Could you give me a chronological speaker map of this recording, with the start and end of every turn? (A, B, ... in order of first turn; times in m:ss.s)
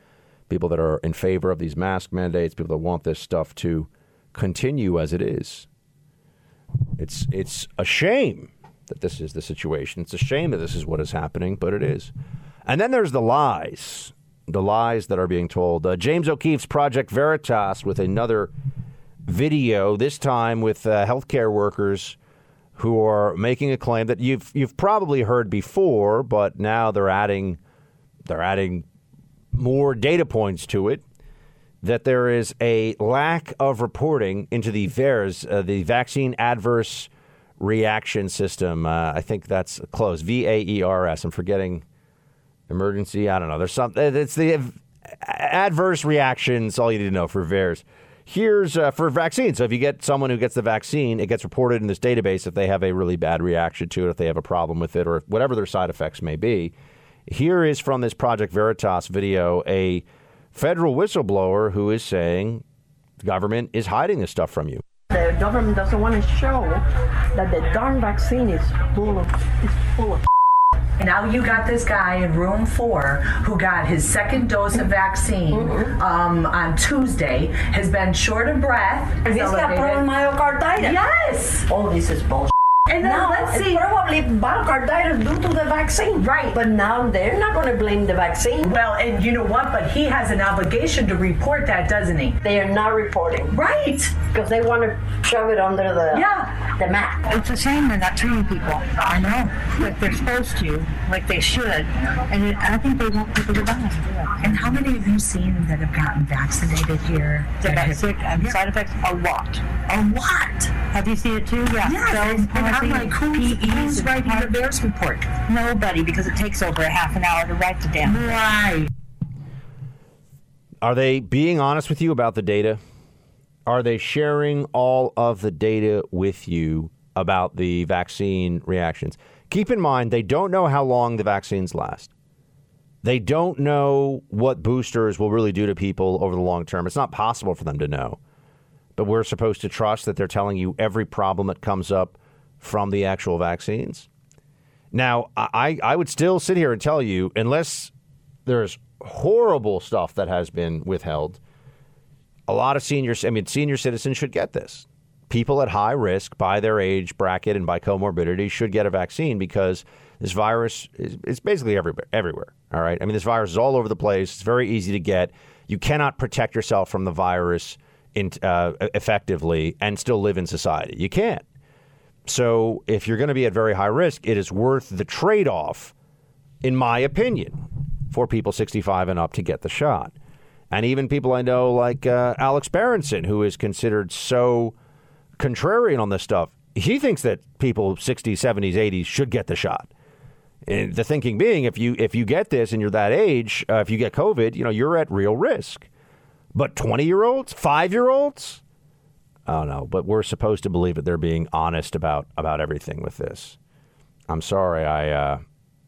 0:00.5-0:05.7 A
0:07.0-0:12.1 A
0:12.7-0:18.5 A
0:19.3-0:22.2 A
0:22.8-0:27.6 A
0:28.3-0:28.8 A
0:29.5-0:31.0 A
0:31.8-0:37.1 A
0:37.6-0:41.8 A
0:42.7-0:56.7 A
0:57.3-1:02.6 A
1:03.2-1:04.8 A
1:05.1-1:10.2 B
1:11.0-1:20.1 C
1:15.5-1:15.9 B
1:19.2-1:21.1 B
1:20.8-1:21.7 C
1:21.7-1:28.8 B
1:22.9-1:23.8 C
1:26.2-1:26.6 C
1:28.6-1:32.4 C
1:32.4-1:33.6 B
1:33.5-1:34.2 C
1:34.2-1:37.3 B
1:36.1-1:36.6 C
1:37.3-1:44.8 D
1:44.4-1:48.6 C
1:47.6-1:58.7 D
1:51.8-1:54.5 C
1:58.1-1:58.8 C
2:00.8-2:02.8 A
2:03.7-2:12.1 A
2:13.0-2:18.2 A
2:19.0-2:24.1 A
2:24.9-2:27.9 A
2:28.5-2:31.4 A
2:32.5-2:51.4 A
2:52.3-2:55.9 A
2:56.6-3:00.1 A
3:00.7-3:04.7 A
3:05.4-3:09.9 A
3:10.7-3:15.9 A
3:16.5-3:18.6 A
3:19.5-3:23.6 A
3:24.3-3:25.4 A